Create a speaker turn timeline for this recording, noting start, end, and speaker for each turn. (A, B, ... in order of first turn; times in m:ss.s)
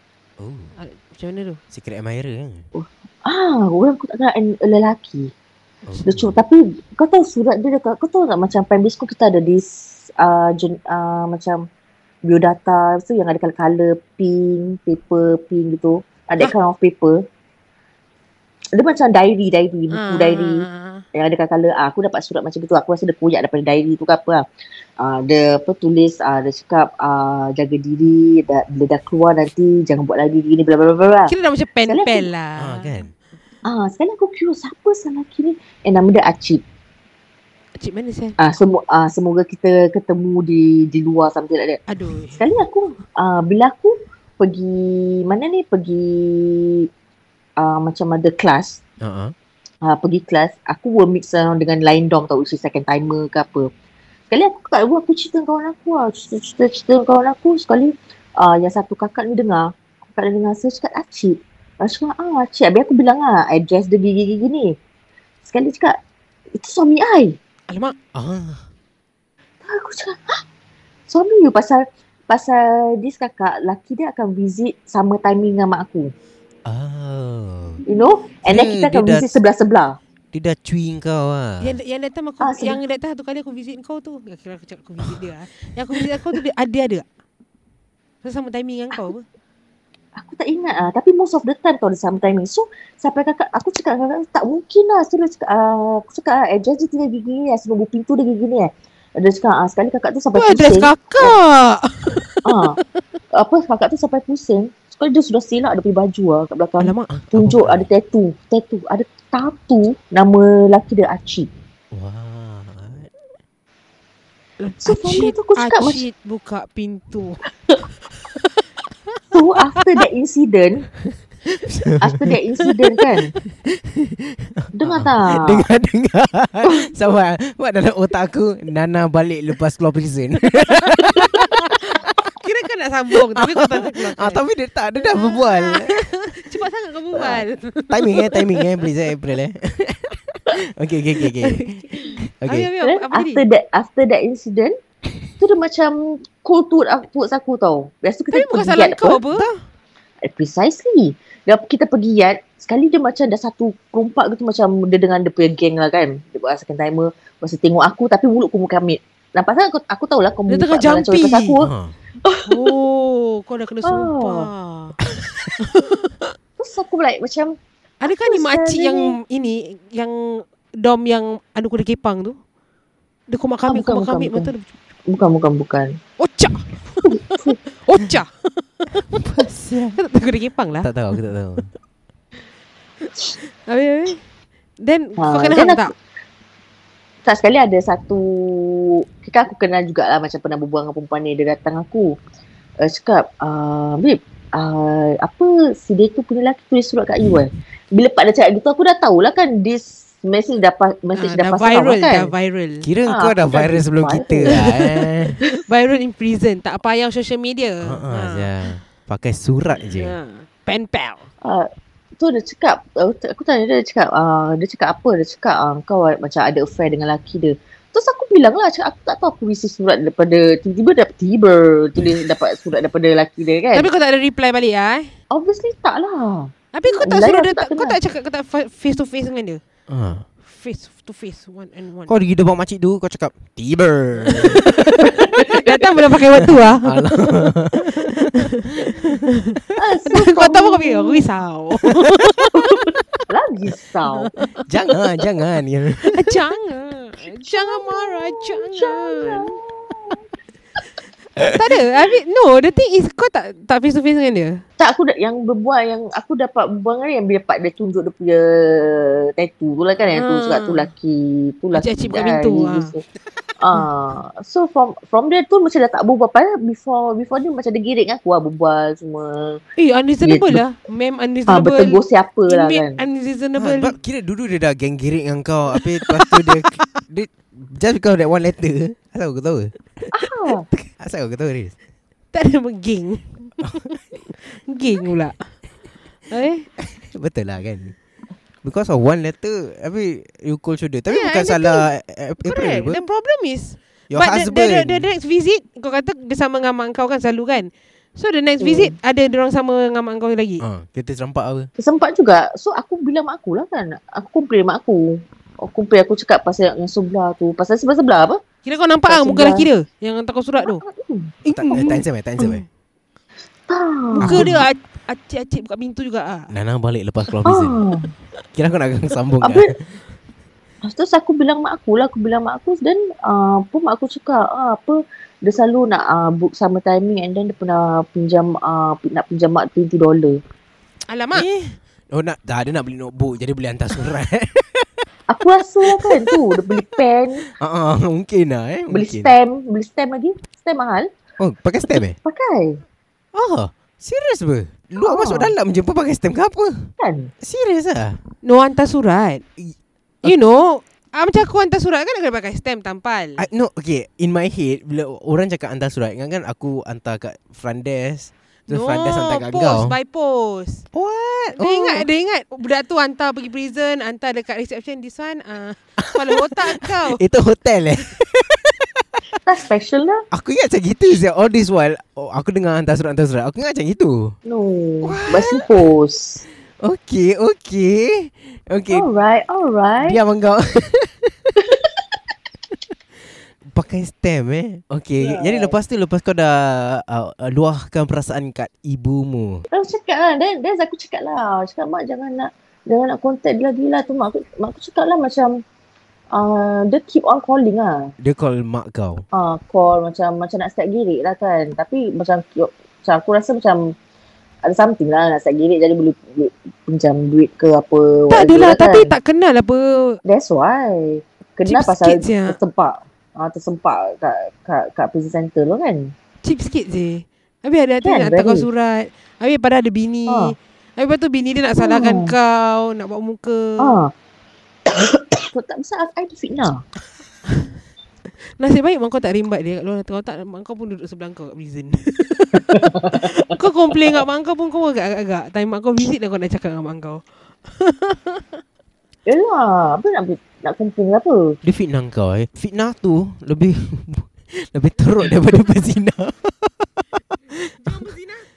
0:00.4-0:00.7 A
0:00.8-0:01.6 B
0:01.7-0:02.6 A
0:02.7-0:05.3 C
0:05.9-0:06.4 A
0:06.0-0:11.6 C
0:12.2-0:17.2 C
0:18.7-0:24.4 C
0:19.9-0:21.0 B
0:25.0-0:31.3 C
0:31.3-0:33.0 B
0:31.9-0:32.3 C
0:32.6-0:33.1 A
0:33.6-0:36.6 C
0:37.8-0:38.4 B
0:38.4-0:46.9 C
0:41.9-0:42.4 B
0:47.6-0:48.8 C
0:49.0-0:49.3 A
0:49.8-0:53.7 C
0:54.3-1:04.8 C
1:05.5-1:06.0 C
1:06.6-1:07.4 C
1:07.7-1:08.0 B
1:08.2-1:08.7 A
1:09.7-1:10.4 C
1:11.1-1:16.1 C
1:16.7-1:17.8 A
1:17.9-1:20.0 C
1:18.4-1:19.3 A
1:20.3-1:21.7 A
1:21.6-1:27.1 B
1:22.4-1:22.8 C
1:28.2-1:29.2 B
1:30.2-1:41.4 C
1:40.3-1:42.8 B
1:42.4-1:42.8 C
1:43.3-1:51.5 C
1:46.8-1:47.1 B
1:47.2-1:47.9 A
1:51.9-1:53.1 A
1:54.6-1:57.4 B
1:54.8-1:56.0 C
1:59.3-2:00.9 C
2:01.4-2:02.4 A
2:02.0-2:03.3 C
2:03.6-2:12.2 A
2:04.7-2:05.7 C
2:06.6-2:06.9 C
2:12.3-2:14.4 B
2:13.3-2:16.2 A
2:15.0-2:18.8 B
2:17.2-2:22.7 A
2:21.3-2:23.4 B
2:22.8-2:24.8 C
2:25.4-2:29.2 C
2:28.3-2:29.5 B
2:30.2-2:41.7 C
2:40.5-2:41.6 B
2:41.6-2:41.9 A
2:42.2-2:42.8 C
2:42.5-2:45.0 B
2:43.8-2:44.5 C
2:45.3-2:45.5 A
2:45.6-2:46.0 B
2:46.6-2:49.2 C
2:48.0-2:52.4 B
2:53.3-2:54.7 B
2:53.7-2:54.5 C
2:55.1-2:56.0 C
2:56.2-3:00.9 B
2:57.1-2:57.6 C
2:59.1-3:00.0 A
3:00.8-3:01.7 A
3:03.1-3:04.2 B
3:04.8-3:05.9 B
3:05.2-3:05.9 C
3:07.2-3:12.2 C
3:12.8-3:22.3 C
3:21.2-3:22.9 B
3:22.8-3:25.4 A
3:23.1-3:24.8 C
3:25.5-3:28.5 B
3:27.8-3:30.1 A
3:30.0-3:31.3 B
3:31.4-3:43.9 C
3:43.7-3:45.1 B
3:45.3-3:48.0 C
3:46.7-3:49.6 B
3:49.9-3:50.3 A
3:50.4-3:52.1 B
3:52.1-3:55.2 A
3:54.3-3:58.3 B
3:56.4-3:58.4 A
3:58.9-3:59.5 B
3:59.8-4:01.2 C
4:00.1-4:02.9 B
4:02.6-4:04.3 C
4:04.1-4:04.6 B
4:04.7-4:06.4 A
4:06.1-4:09.6 B
4:07.5-4:10.2 C
4:11.5-4:14.6 B
4:14.8-4:23.0 C
4:20.1-4:20.9 B
4:21.7-4:22.9 B
4:23.6-4:29.6 C
4:29.8-4:33.9 B
4:30.2-4:30.6 C
4:31.5-4:33.0 C
4:33.6-4:41.8 A
4:36.0-4:36.5 B
4:40.1-4:40.7 C
4:42.3-4:43.8 B
4:44.4-4:45.6 B
4:46.3-4:46.7 B
4:46.8-4:48.0 A
4:48.6-4:53.0 A
4:51.1-4:51.8 B
4:52.4-5:00.6 B
4:54.1-4:55.1 A
4:58.6-4:58.9 C
5:00.6-5:01.7 A
5:01.8-5:08.4 C
5:08.6-5:10.8 B
5:09.1-5:09.7 C
5:10.6-5:11.9 C
5:11.5-5:12.0 B
5:11.5-5:12.6 A
5:13.7-5:14.6 C
5:14.1-5:16.5 B
5:14.2-5:14.6 A
5:16.5-5:17.8 A
5:17.4-5:18.1 C
5:18.5-5:20.0 A
5:19.4-5:19.7 C
5:20.8-5:30.4 C
5:31.1-5:31.5 B
5:31.3-5:35.1 A
5:35.3-5:37.4 C
5:35.9-5:36.8 A
5:37.5-5:39.3 A
5:38.9-5:41.1 C
5:41.4-5:42.2 A
5:42.2-5:42.8 C
5:43.3-5:48.2 A
5:45.0-5:45.6 C
5:47.0-5:47.3 C
5:48.4-5:49.4 B
5:49.6-5:50.3 A
5:50.2-5:53.4 B
5:53.4-6:00.0 A
5:58.7-6:00.8 B
6:00.9-6:02.1 A
6:01.6-6:07.2 B
6:06.0-6:09.2 A
6:09.4-6:10.2 C
6:10.3-6:14.4 A
6:14.5-6:16.4 C
6:15.0-6:15.8 A
6:16.8-6:19.1 A
6:18.9-6:20.2 C
6:20.0-6:21.6 A
6:23.6-6:29.6 A
6:25.2-6:25.7 C
6:29.7-6:35.6 C
6:36.3-6:38.1 C
6:38.2-6:39.2 A
6:39.3-6:44.0 C
6:44.6-6:49.1 C
6:48.3-6:50.2 B
6:50.2-6:56.1 C
6:51.7-6:52.6 B
6:56.4-7:04.0 B
6:58.0-6:58.7 C
7:00.3-7:00.6 C
7:01.8-7:02.4 C
7:03.8-7:04.1 C
7:04.9-7:06.8 C
7:08.4-7:18.4 B
7:12.8-7:13.2 C
7:19.2-7:21.6 C
7:21.6-7:28.0 A
7:27.8-7:28.5 B